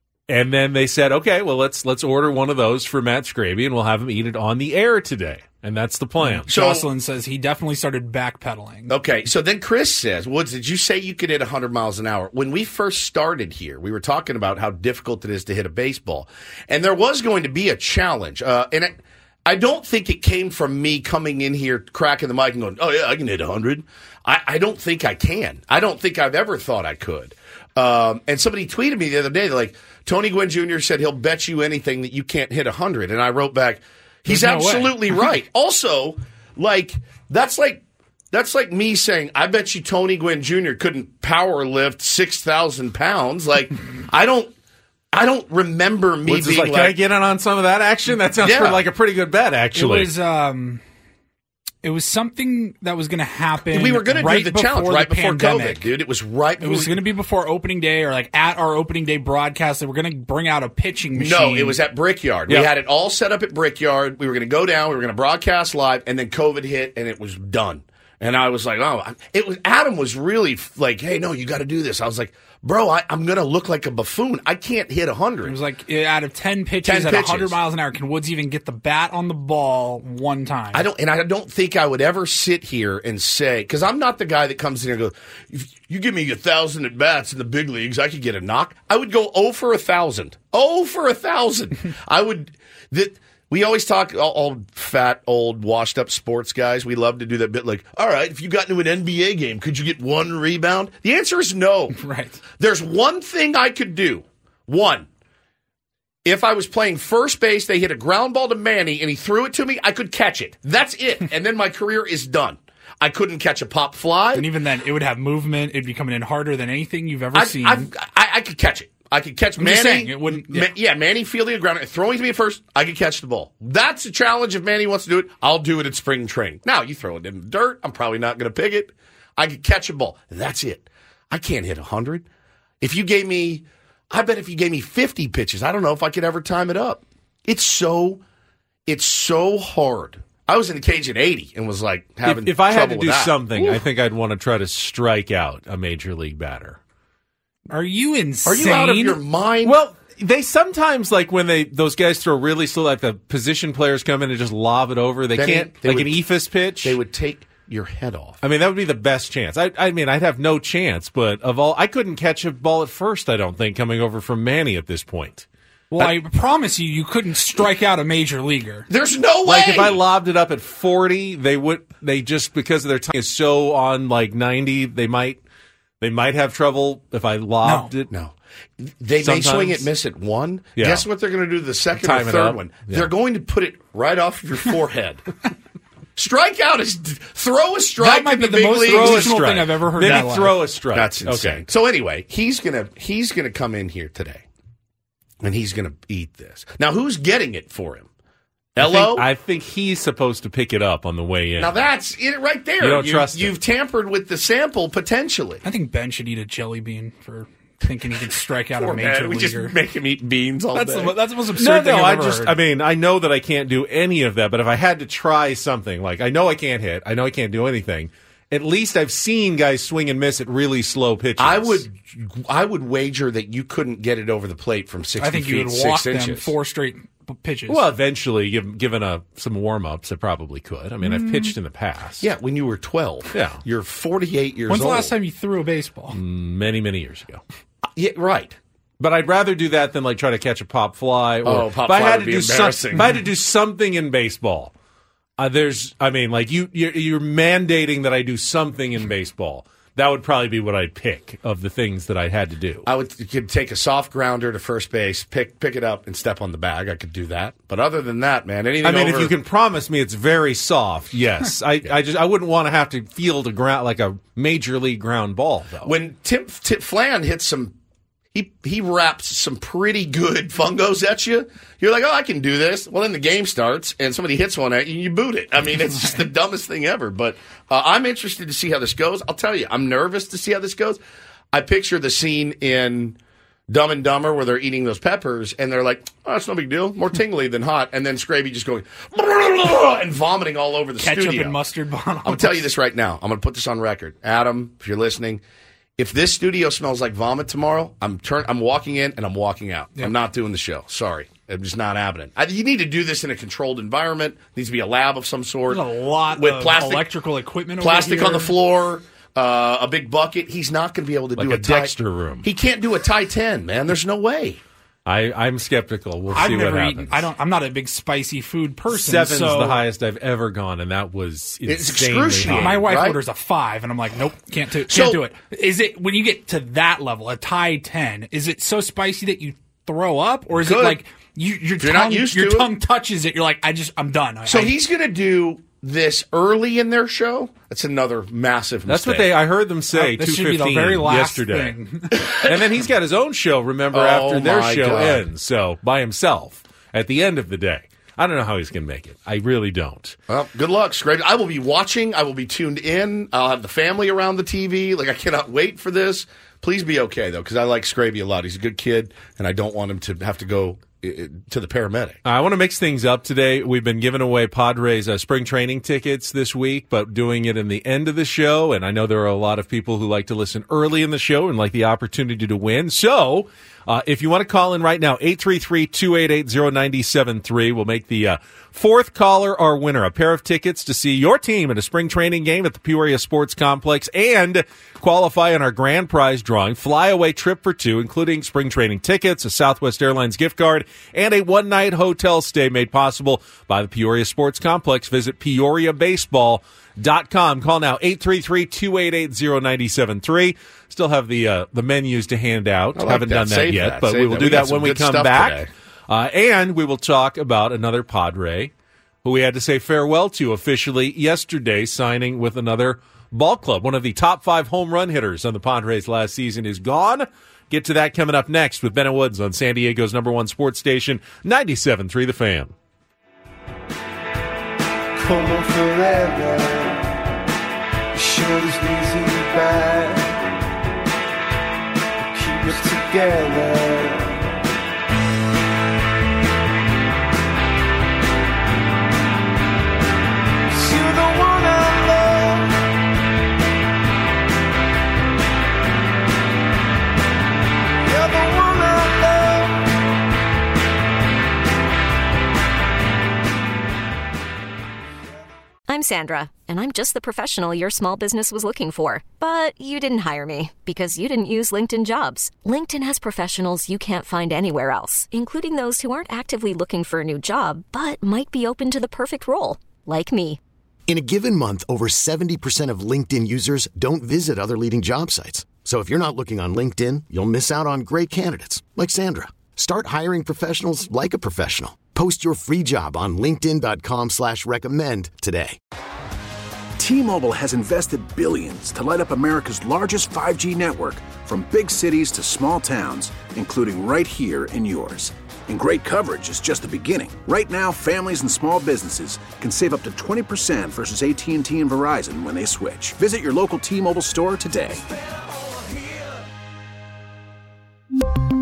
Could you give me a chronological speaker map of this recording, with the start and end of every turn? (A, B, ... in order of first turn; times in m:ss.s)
0:00.3-0:06.5 A
0:06.2-0:08.9 B
0:06.5-0:06.8 C
0:08.9-0:44.5 C
0:34.2-0:35.3 B
0:45.1-0:46.9 C
0:46.2-0:50.1 A
0:48.4-0:48.8 C
0:49.7-0:50.8 B
0:51.8-0:55.9 B
0:53.7-0:57.0 C
0:56.6-1:01.8 B
1:01.1-1:15.6 C
1:15.4-1:20.8 B
1:16.8-1:17.6 C
1:20.7-1:42.0 C
1:42.0-1:42.4 B
1:42.6-1:45.1 C
1:46.2-1:54.4 C
1:54.3-1:57.9 B
1:57.3-2:12.2 C
1:59.6-2:00.7 B
2:12.8-2:18.2 C
2:18.8-2:23.8 C
2:22.2-2:26.8 A
2:27.7-2:29.2 B
2:28.4-2:29.8 C
2:29.6-2:37.0 A
2:35.3-2:36.2 C
2:36.8-2:38.4 C
2:38.4-2:45.4 A
2:45.9-2:48.9 B
2:48.9-2:50.0 C
2:49.4-2:55.4 A
2:56.0-2:58.1 A
2:57.6-2:57.9 B
2:58.1-3:05.2 C
2:59.2-2:59.9 A
3:00.8-3:01.0 A
3:02.0-3:03.1 A
3:06.2-3:09.4 C
3:08.0-3:10.6 B
3:08.7-3:11.6 A
3:10.9-3:14.4 C
3:15.4-3:18.1 C
3:18.7-3:19.2 C
3:18.8-3:21.8 A
3:21.6-3:25.6 C
3:22.8-3:23.5 A
3:25.6-3:29.7 B
3:28.8-3:31.1 C
3:30.7-3:32.6 B
3:31.6-3:41.8 A
3:41.4-3:46.5 C
3:45.2-3:47.8 B
3:47.7-3:52.3 A
3:51.0-3:51.5 B
3:52.2-3:55.1 C
3:53.3-3:53.6 A
3:54.7-3:56.2 B
3:56.1-3:57.4 A
3:57.9-3:58.6 C
3:59.0-4:04.7 A
4:01.4-4:03.1 C
4:05.4-4:12.9 A
4:12.8-4:19.3 C
4:18.8-4:25.9 A
4:25.8-4:27.7 C
4:28.3-4:41.0 C
4:35.9-4:36.2 B
4:41.5-4:43.2 C
4:43.7-4:51.6 C
4:51.0-4:52.7 B
4:52.2-4:55.4 C
4:56.0-5:07.1 C
5:05.7-5:08.5 B
5:07.8-5:14.6 C
5:11.4-5:12.5 A
5:15.0-5:17.2 A
5:16.3-5:19.8 B
5:18.9-5:22.9 A
5:21.7-5:23.2 C
5:22.5-5:34.7 B
5:24.9-5:25.2 C
5:30.5-5:31.0 C
5:31.8-5:32.7 C
5:34.4-5:39.3 C
5:38.9-5:41.8 A
5:39.9-5:42.2 B
5:42.2-5:42.5 C
5:42.4-5:50.2 A
5:43.9-5:45.2 C
5:50.3-6:02.2 C
6:02.2-6:48.7 A
6:43.0-6:45.7 C
6:49.2-7:02.7 A
7:05.1-7:07.1 D
7:08.1-7:10.4 D
7:12.2-7:14.4 D
7:20.7-7:22.8 D
7:28.0-7:29.8 D
7:35.9-7:50.6 E
7:51.1-8:05.8 F
8:07.0-8:25.0 G